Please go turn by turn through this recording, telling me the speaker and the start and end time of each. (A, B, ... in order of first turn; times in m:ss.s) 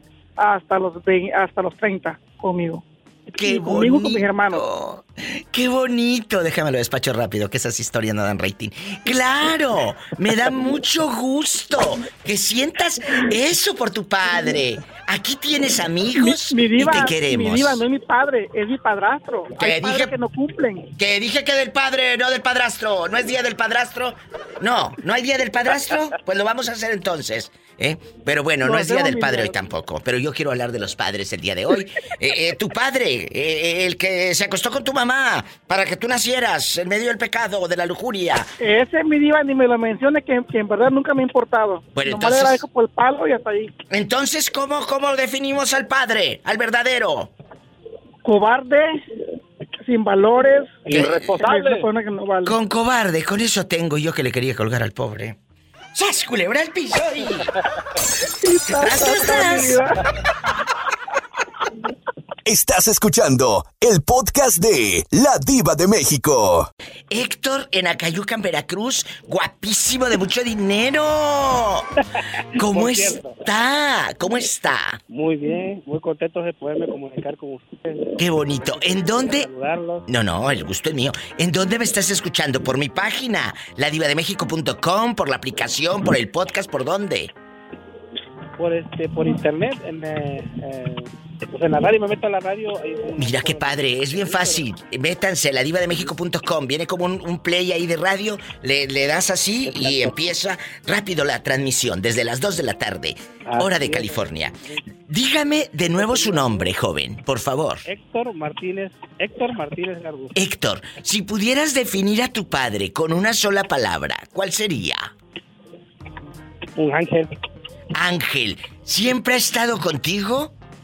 0:00.4-0:04.6 A
0:03.3-0:17.8 B
0:16.2-0:20.9 A
0:19.6-0:20.1 B
0:21.0-0:38.5 B
0:28.6-0:29.6 A
0:38.6-0:43.7 A
0:42.0-0:42.6 B
0:43.9-0:47.3 B
0:48.2-0:49.0 A
0:49.8-0:52.6 A
0:50.9-0:51.3 B
0:51.0-0:51.5 C
0:52.4-0:55.4 B
0:55.9-0:57.5 B
0:58.4-1:00.0 A
0:58.7-0:59.8 B
1:02.4-1:06.7 D
1:07.1-1:11.9 B
1:12.6-1:15.0 B
1:12.6-1:13.4 C
1:15.1-1:20.0 C
1:18.2-1:19.5 B
1:20.1-1:27.3 B
1:28.6-1:34.6 C
1:33.2-1:44.6 B
1:39.7-1:40.2 C
1:43.4-1:44.8 C
1:45.1-1:47.9 B
1:46.0-1:46.7 C
1:47.9-1:50.3 C
1:50.4-1:55.1 B
1:56.8-1:57.3 C
1:58.0-2:00.5 B